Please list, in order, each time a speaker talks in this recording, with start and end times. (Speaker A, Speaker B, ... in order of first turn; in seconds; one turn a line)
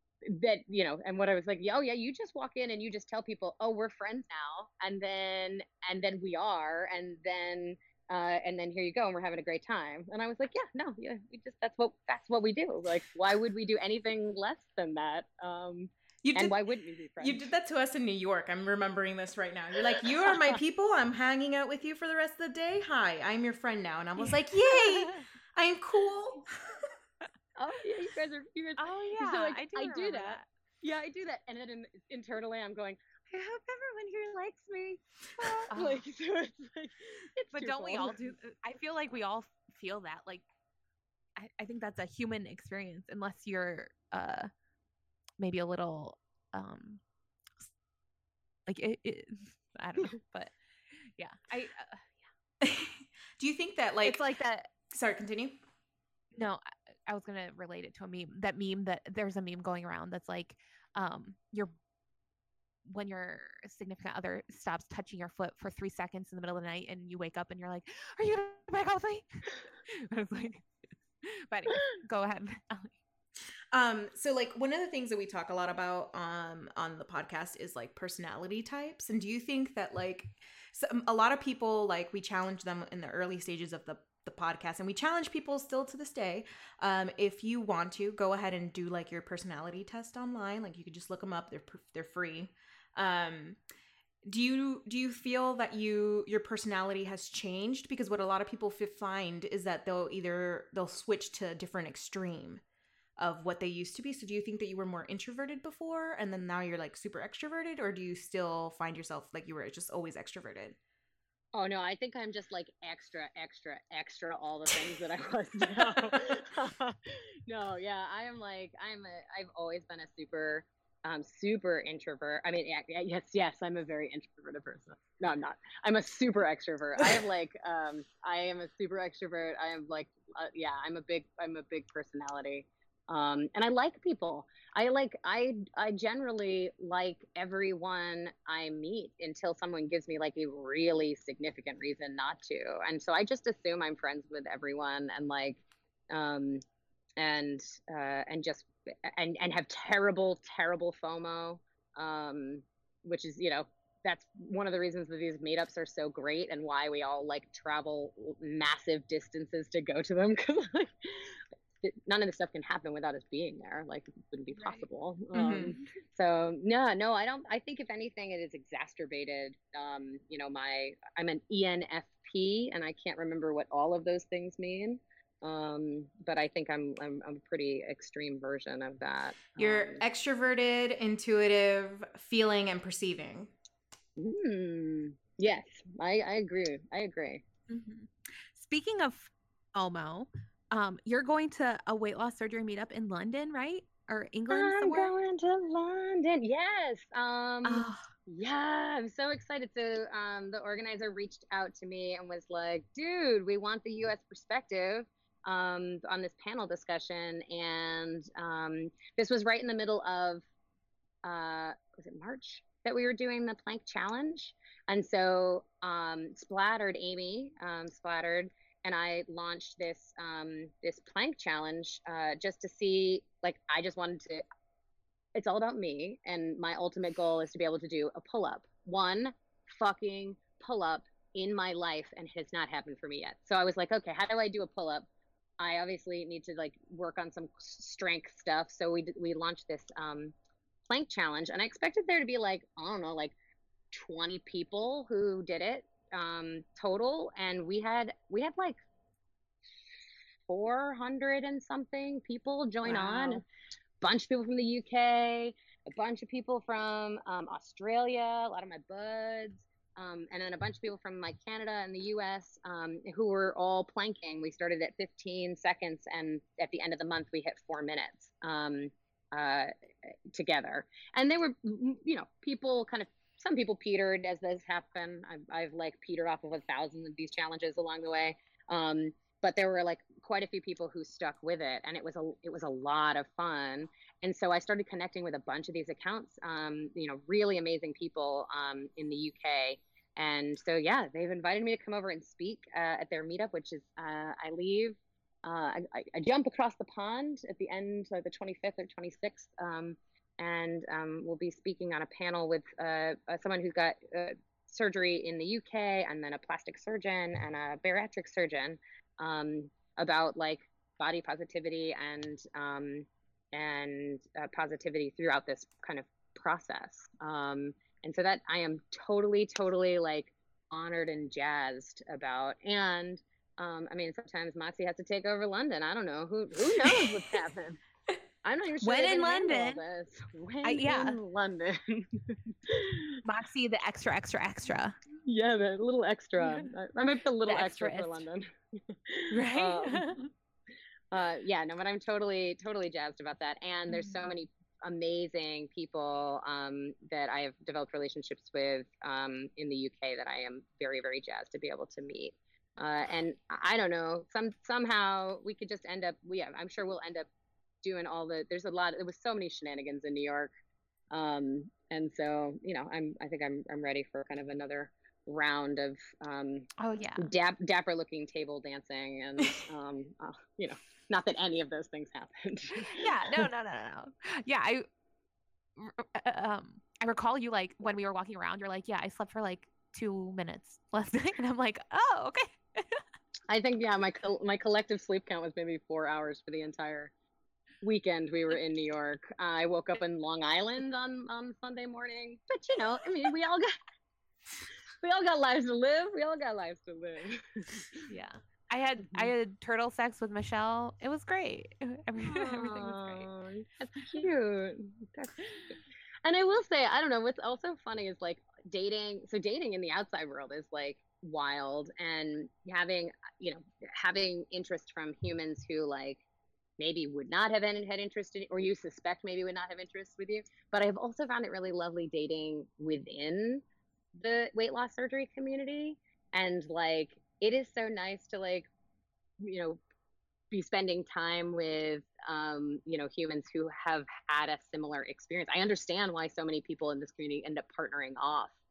Speaker A: 0.2-17.5
Speaker B: 16.2-26.9
Speaker C: 24.2-25.2
Speaker A: 27.6-38.3
Speaker C: 28.8-30.5
Speaker C: 35.7-36.0
Speaker C: 37.5-40.5
Speaker C: 41.4-44.5
Speaker C: 45.4-47.0
Speaker C: 48.7-52.3
Speaker B: 52.6-54.2
Speaker C: 54.0-54.7
Speaker B: 54.9-55.6
Speaker C: 56.4-61.7
Speaker C: 62.9-70.7
Speaker C: 71.2-73.0
Speaker B: 73.7-93.6
Speaker B: 94.2-102.6
Speaker B: 103.2-110.8
Speaker A: 111.5-146.6
Speaker A: 147.2-180.0
Speaker C: 164.6-164.8
Speaker B: 165.3-165.8
Speaker B: 179.6-183.5
Speaker A: 184.2-187.4
Speaker C: 187.7-195.1
Speaker A: 194.5-210.4
Speaker C: 197.6-198.1
Speaker A: 211.2-224.4
Speaker A: 225.3-235.1
Speaker A: 235.6-240.3
Speaker A: 240.9-243.3
Speaker A: 243.9-248.8
Speaker A: 250.5-253.4
Speaker B: 252.9-253.4
Speaker A: 254.0-269.7
Speaker A: 270.3-327.8
Speaker A: 328.4-333.2
Speaker C: 328.8-329.8
Speaker C: 330.6-331.2
Speaker C: 333.2-335.0
Speaker A: 335.2-340.2
Speaker C: 336.4-336.7
Speaker C: 337.5-338.2
Speaker C: 339.3-340.2
Speaker A: 341.1-357.3
Speaker C: 343.9-344.2
Speaker A: 357.8-360.5
Speaker A: 361.1-373.4
Speaker C: 366.8-367.3
Speaker C: 372.8-374.9
Speaker C: 375.8-383.0
Speaker A: 383.5-387.1
Speaker A: 387.8-393.7
Speaker A: 395.0-398.0
Speaker C: 398.1-403.3
Speaker A: 402.2-416.2
Speaker A: 416.8-423.6
Speaker A: 424.1-428.7
Speaker A: 429.4-429.8
Speaker A: 430.5-438.5